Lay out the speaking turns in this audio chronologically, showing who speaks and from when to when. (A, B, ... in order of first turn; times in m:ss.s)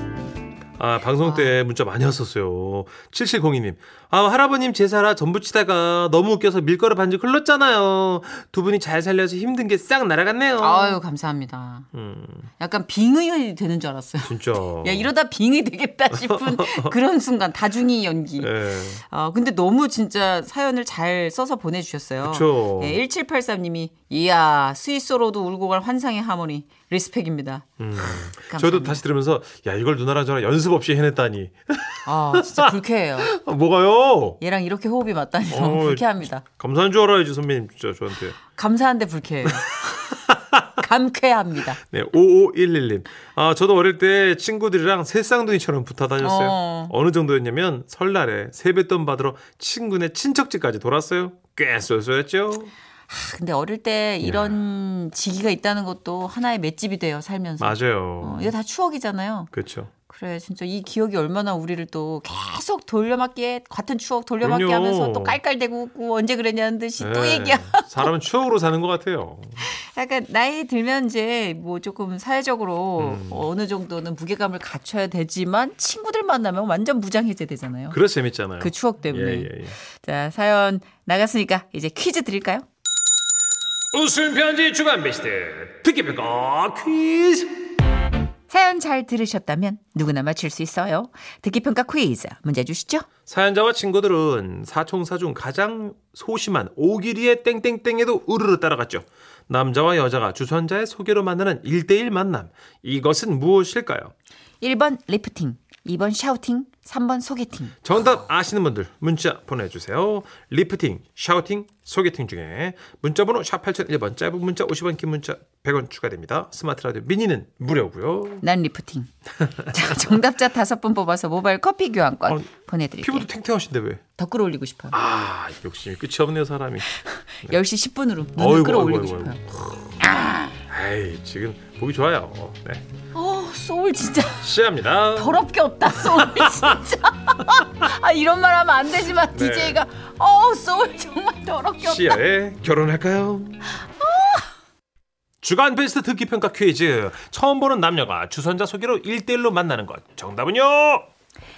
0:00.8-0:11.0 A
0:10.6-0:11.9 B
0:11.9-0:12.5 A
0:12.6-0:18.5 B
0:14.2-0:15.1 A
0:16.1-0:16.9 A
0:18.4-0:19.0 A
0:19.0-0:27.6 B
0:22.2-0:23.0 A
0:27.8-0:32.7 A
0:28.4-0:29.0 B
0:32.0-0:33.3 B
0:33.2-0:34.4 A
0:34.4-0:36.4 B
0:35.5-0:38.4 A
0:38.5-0:39.8 B
0:40.7-0:41.8 B
0:41.9-0:52.7 A
0:46.2-0:46.9 B
0:53.1-0:59.5 B
0:54.2-0:54.5 A
0:57.6-0:58.5 A
0:59.5-0:59.9 A
1:00.1-1:08.1 B
1:04.4-1:05.4 A
1:07.0-1:09.6 A
1:09.6-1:18.0 B
1:13.0-1:13.5 A
1:17.9-1:19.7 A
1:18.6-1:22.6 B
1:23.9-1:27.5 A
1:28.5-1:33.1 B
1:33.3-1:44.1 A
1:44.6-1:47.7 B
1:47.8-1:58.4 A
1:58.4-1:59.1 B
1:59.7-2:03.2 B
2:03.0-2:04.0 A
2:04.2-2:04.9 B
2:04.9-2:06.9 A
2:07.4-2:09.4 B
2:08.4-2:10.0 A
2:10.7-2:12.8 A
2:13.1-2:14.4 B
2:14.4-2:15.4 A
2:15.1-2:22.2 B
2:16.0-2:16.7 A
2:19.3-2:19.8 A
2:21.8-2:23.7 A
2:24.0-2:24.4 B
2:25.4-2:31.0 A